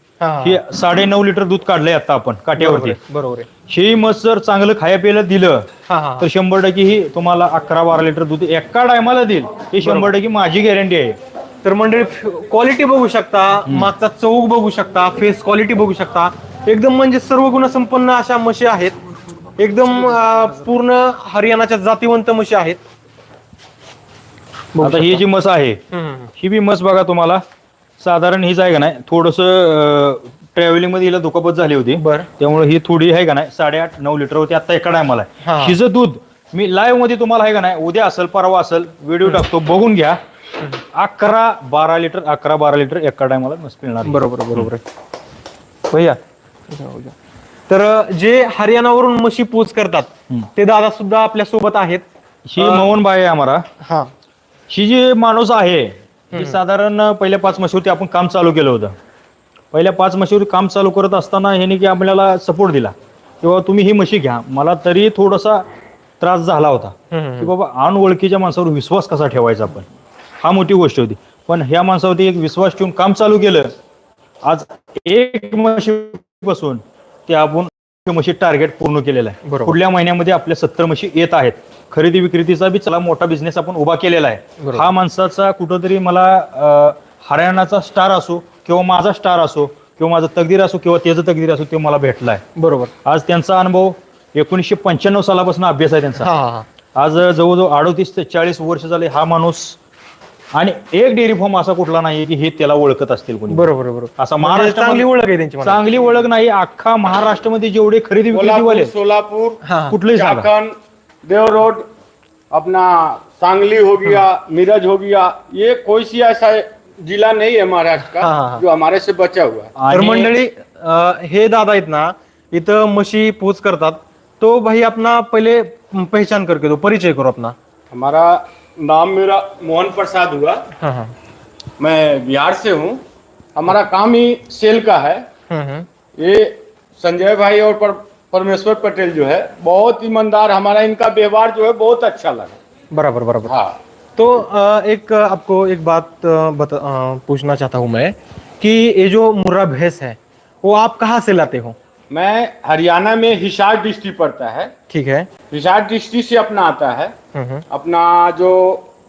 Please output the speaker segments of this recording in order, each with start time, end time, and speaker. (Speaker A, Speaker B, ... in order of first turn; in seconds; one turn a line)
Speaker A: 0.2-0.6
Speaker B: 0.4-3.0
Speaker A: 2.6-3.5
Speaker B: 3.7-5.7
Speaker A: 5.9-6.3
Speaker B: 6.2-11.2
Speaker A: 9.8-10.1
Speaker A: 11.6-18.9
Speaker A: 19.6-22.8
Speaker A: 24.7-25.2
Speaker B: 24.8-25.8
Speaker A: 25.9-26.3
Speaker B: 26.4-27.4
Speaker B: 28.0-40.2
Speaker A: 31.9-32.3
Speaker A: 35.4-35.8
Speaker B: 40.9-44.7
Speaker A: 44.0-44.8
Speaker A: 45.9-47.1
Speaker A: 47.7-52.0
Speaker B: 52.5-53.6
Speaker A: 52.6-52.9
Speaker A: 53.8-54.1
Speaker B: 54.7-58.9
Speaker B: 59.7-65.6
Speaker B: 66.2-69.8
Speaker A: 67.1-67.5
Speaker B: 70.4-73.7
Speaker B: 74.4-92.4
Speaker A: 79.4-79.8
Speaker A: 84.6-84.9
Speaker A: 92.5-92.9
Speaker B: 93.0-96.3
Speaker A: 96.2-96.7
Speaker B: 96.9-99.8
Speaker B: 100.5-105.1
Speaker A: 103.5-105.8
Speaker B: 105.6-108.9
Speaker C: 108.3-111.9
Speaker A: 109.6-110.0
Speaker B: 109.9-110.5
Speaker C: 112.5-119.7
Speaker A: 118.2-118.6
Speaker B: 119.8-120.3
Speaker A: 119.9-127.5
Speaker C: 127.9-130.6
Speaker A: 130.8-131.1
Speaker C: 131.8-133.0
Speaker C: 133.6-135.2
Speaker A: 135.5-135.9
Speaker C: 136.2-142.6
Speaker A: 142.9-143.5
Speaker C: 143.4-143.8
Speaker A: 144.2-151.8
Speaker C: 152.1-154.7
Speaker A: 154.9-155.3
Speaker C: 155.5-157.2
Speaker A: 157.3-157.6
Speaker C: 157.7-158.8